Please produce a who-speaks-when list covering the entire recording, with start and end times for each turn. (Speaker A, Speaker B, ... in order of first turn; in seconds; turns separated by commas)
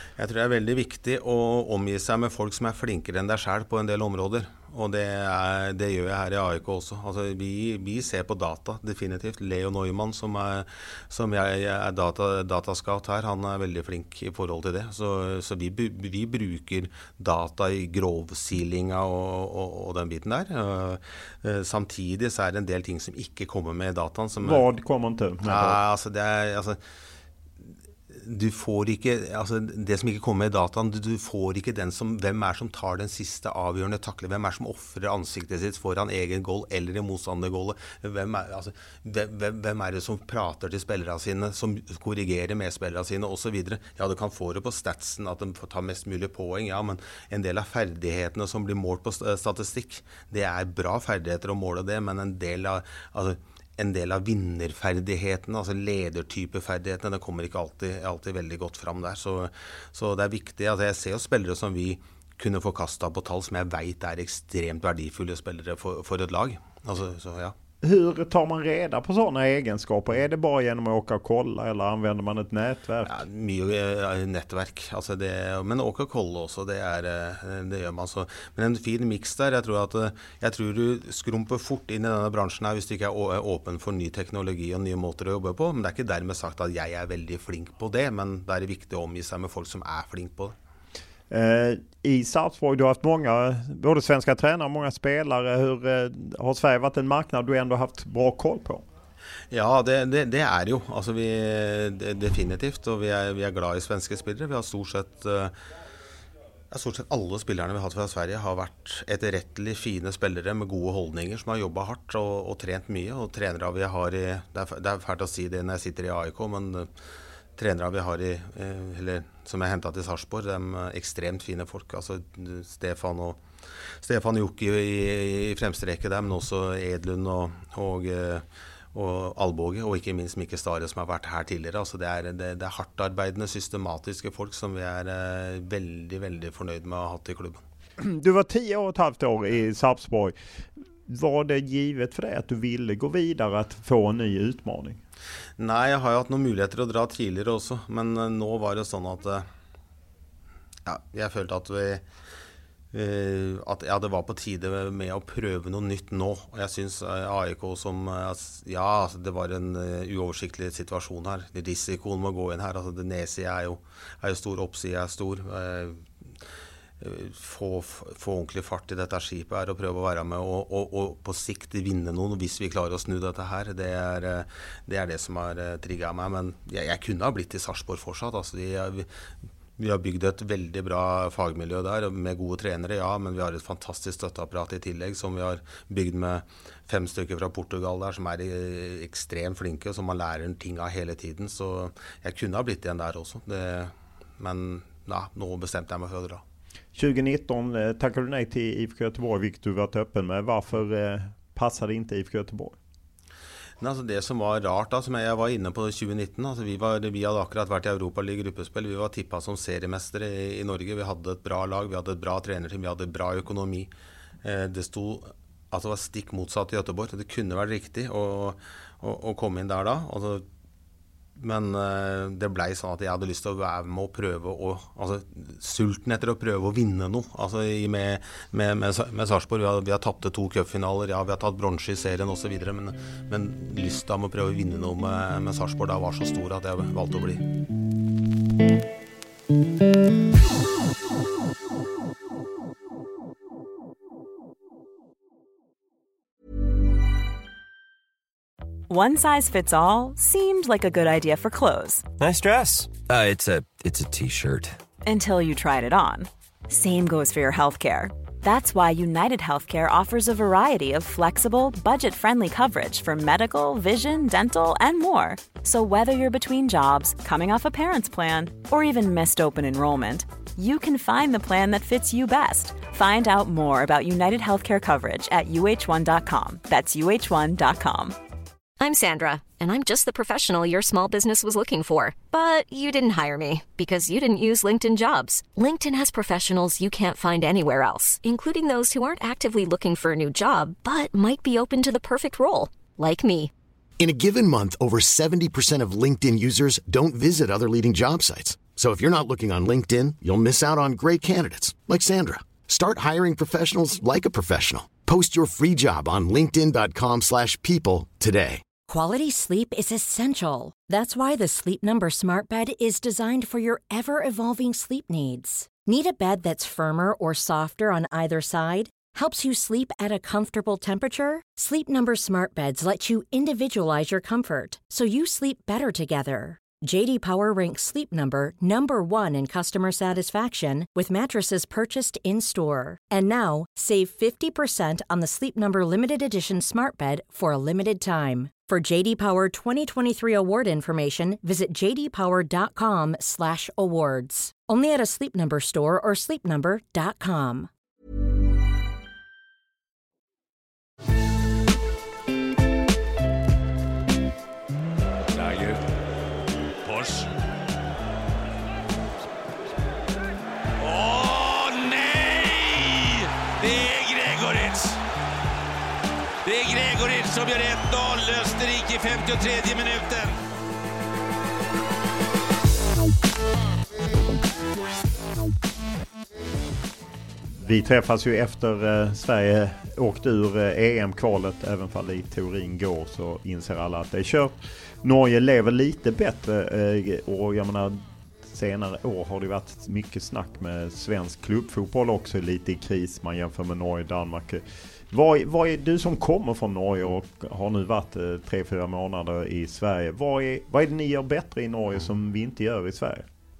Speaker A: 0.2-24.6, Speaker B: 24.4-25.8, Speaker A: 25.4-26.8, Speaker A: 28.1-67.5, Speaker B: 67.8-73.2, Speaker A: 73.0-90.5, Speaker B: 91.3-98.8, Speaker A: 99.5-105.5, Speaker A: 106.7-116.9, Speaker A: 117.6-123.4, Speaker A: 124.0-137.6, Speaker B: 138.0-140.3, Speaker B: 141.1-145.0, Speaker A: 145.6-149.5, Speaker A: 150.8-152.0, Speaker A: 152.9-166.1, Speaker A: 167.0-179.1, Speaker A: 179.8-196.4, Speaker B: 196.9-202.8, Speaker A: 203.8-213.9, Speaker A: 214.4-220.4, Speaker A: 221.3-237.4, Speaker C: 248.9-252.1, Speaker D: 252.2-254.8, Speaker C: 255.0-278.1, Speaker E: 278.8-293.5, Speaker F: 294.0-308.6, Speaker G: 308.9-347.7, Speaker H: 355.3-355.8, Speaker H: 356.8-357.3, Speaker H: 360.8-365.0, Speaker H: 366.4-370.3, Speaker B: 377.6-403.3